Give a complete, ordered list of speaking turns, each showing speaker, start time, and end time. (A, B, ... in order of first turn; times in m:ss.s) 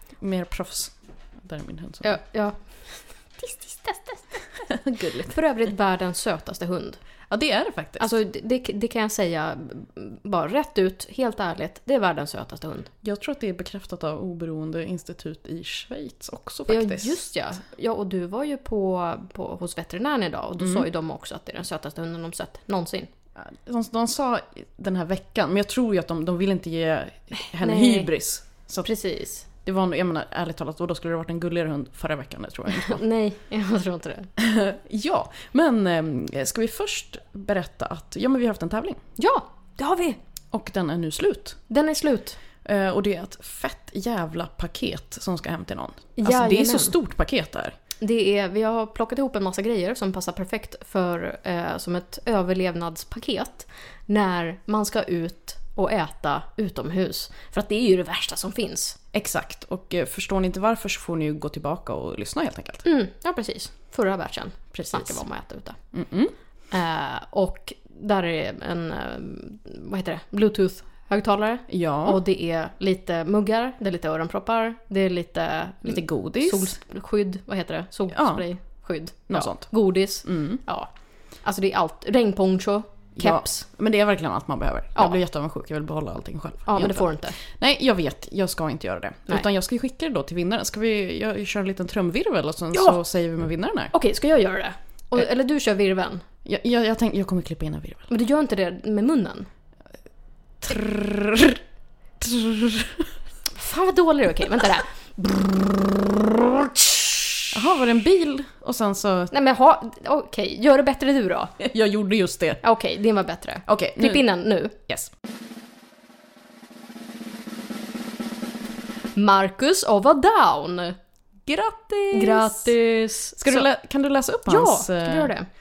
0:00.2-0:02.2 A
0:02.0-0:04.5 B
0:04.7-0:05.3 A
0:05.2-0:07.0 B
0:07.3-0:08.1 A
0:08.0-0:12.9 B
0:13.0-0:17.2 A
0:16.7-0:23.1 B
0:20.6-0:20.8 A
0:23.4-0:28.9 A
0:27.6-0:28.1 B
0:28.8-0:29.5 B
0:29.6-0:33.0 A
0:32.7-0:34.3 B
0:34.4-0:39.0 A
0:39.2-0:40.2 B
0:40.5-0:41.6 A
0:41.7-0:42.4 B
0:42.6-0:47.7 A
0:46.2-0:47.0 B
0:48.0-0:59.0 B
0:59.1-1:02.8 A
1:02.8-1:05.8 B
1:04.8-1:05.2 A
1:05.9-1:06.3 A
1:06.7-1:20.9 B
1:11.7-1:12.2 A
1:15.8-1:16.8 A
1:18.1-1:18.4 A
1:19.3-1:19.6 A
1:20.2-1:20.6 A
1:21.4-1:23.6 B
1:23.2-1:33.9 A
1:26.6-1:27.4 B
1:32.7-1:33.0 B
1:33.9-1:36.2 B
1:36.4-1:38.1 A
1:38.1-1:39.5 B
1:40.6-1:41.6 A
1:42.2-1:43.1 A
1:43.6-1:47.4 B
1:47.5-1:49.3 A
1:49.3-1:51.5 B
1:51.6-1:52.6 A
1:52.6-1:54.8 B
1:53.7-1:54.2 A
1:59.1-2:00.9 B
2:01.5-2:02.7 A
2:02.1-2:03.7 B
2:03.4-2:05.3 A
2:04.5-2:05.5 B